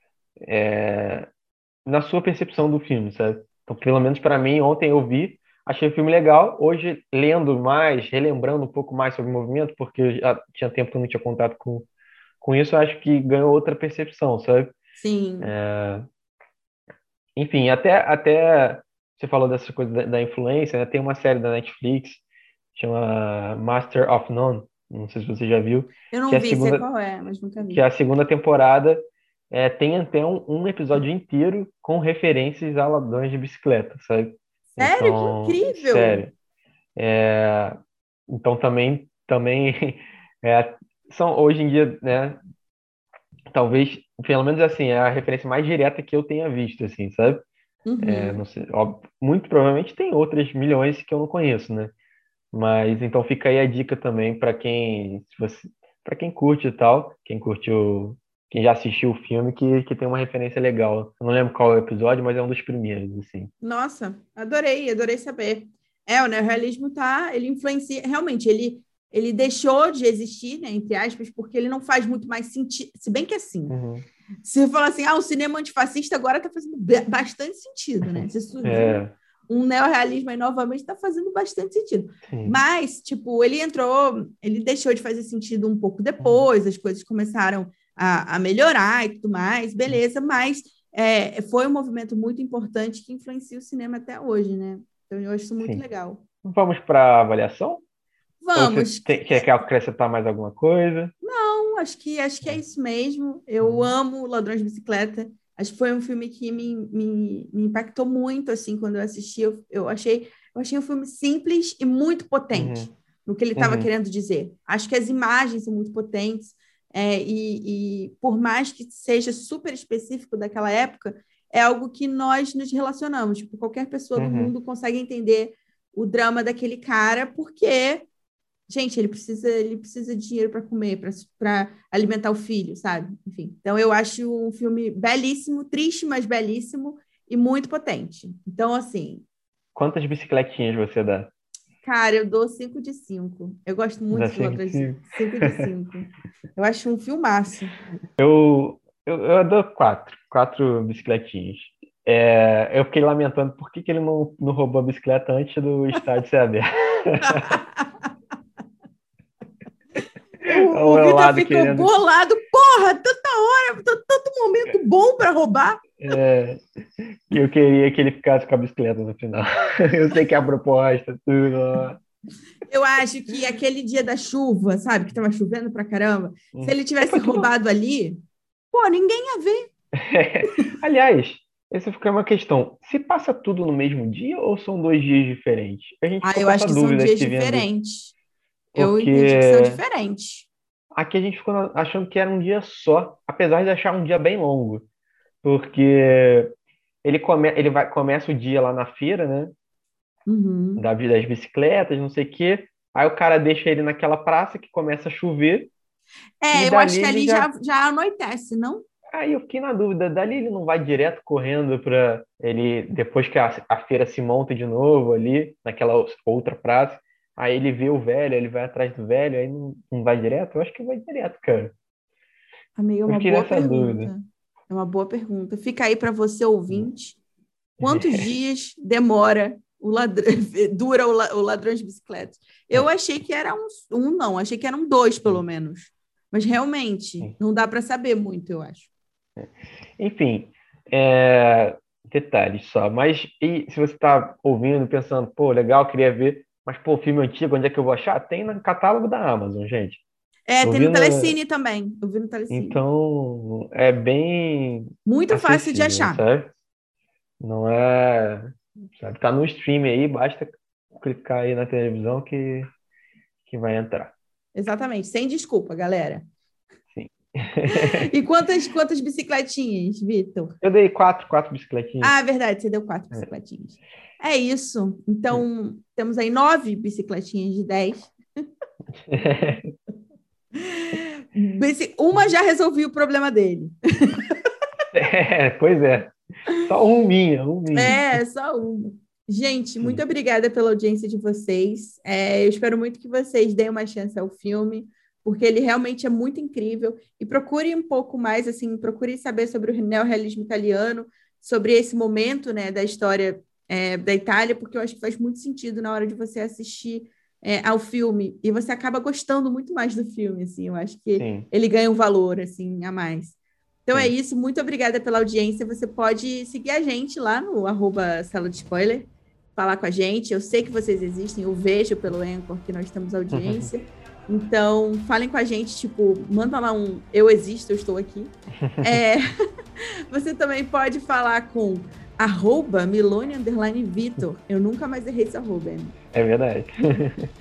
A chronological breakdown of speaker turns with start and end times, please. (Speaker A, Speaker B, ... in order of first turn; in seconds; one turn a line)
Speaker A: 0.4-1.3
Speaker A: 1.9-11.9
Speaker A: 12.4-14.7
Speaker B: 15.0-15.5
Speaker A: 15.4-16.0
Speaker A: 17.4-22.2
Speaker A: 22.7-26.9
Speaker B: 26.1-27.8
Speaker A: 27.7-36.3
Speaker B: 34.7-36.2
Speaker A: 37.0-37.8
Speaker A: 38.3-42.4
Speaker A: 43.5-47.4
Speaker B: 47.9-48.4
Speaker A: 48.0-51.9
Speaker A: 52.5-63.5
Speaker B: 63.6-73.7
Speaker A: 73.7-74.0
Speaker B: 74.4-96.2
Speaker A: 78.0-79.1
Speaker A: 82.2-82.6
Speaker A: 86.2-86.5
Speaker A: 96.4-97.8
Speaker B: 98.4-99.6
Speaker A: 98.5-101.1
Speaker B: 101.2-128.1
Speaker A: 103.6-103.9
Speaker A: 112.5-112.9
Speaker A: 113.5-113.9
Speaker A: 124.2-124.5
Speaker B: 128.7-139.2
Speaker A: 139.7-141.3
Speaker B: 141.8-147.8
Speaker A: 144.1-145.7
Speaker A: 148.2-157.6
Speaker B: 157.2-157.9
Speaker B: 160.4-166.0
Speaker A: 160.4-161.9
Speaker A: 166.0-172.0
Speaker B: 172.7-178.2
Speaker A: 176.5-177.5
Speaker B: 178.7-179.7
Speaker A: 179.9-187.7
Speaker B: 186.2-188.1
Speaker A: 188.7-189.8
Speaker B: 188.8-190.5
Speaker A: 190.9-194.8
Speaker A: 195.4-196.5
Speaker A: 197.0-199.5
Speaker B: 200.3-200.8
Speaker A: 200.8-205.7
Speaker B: 206.4-208.8
Speaker A: 206.5-207.5
Speaker A: 209.1-221.7
Speaker B: 222.8-227.2
Speaker A: 223.1-224.1
Speaker B: 227.8-238.9
Speaker A: 227.8-228.2
Speaker A: 239.4-250.0
Speaker B: 250.5-252.8
Speaker A: 250.6-251.4
Speaker A: 252.5-256.5
Speaker B: 255.0-256.2
Speaker A: 257.4-262.7
Speaker A: 263.5-264.1
Speaker B: 264.5-266.3
Speaker A: 266.9-268.1
Speaker B: 267.7-270.6
Speaker A: 270.6-272.1
Speaker B: 272.0-278.1
Speaker A: 278.9-279.7
Speaker B: 280.6-284.3
Speaker A: 284.9-288.2
Speaker B: 287.7-329.2
Speaker A: 311.2-311.5
Speaker A: 323.3-323.7
Speaker A: 328.6-329.0
Speaker B: 330.1-335.9
Speaker A: 336.1-337.3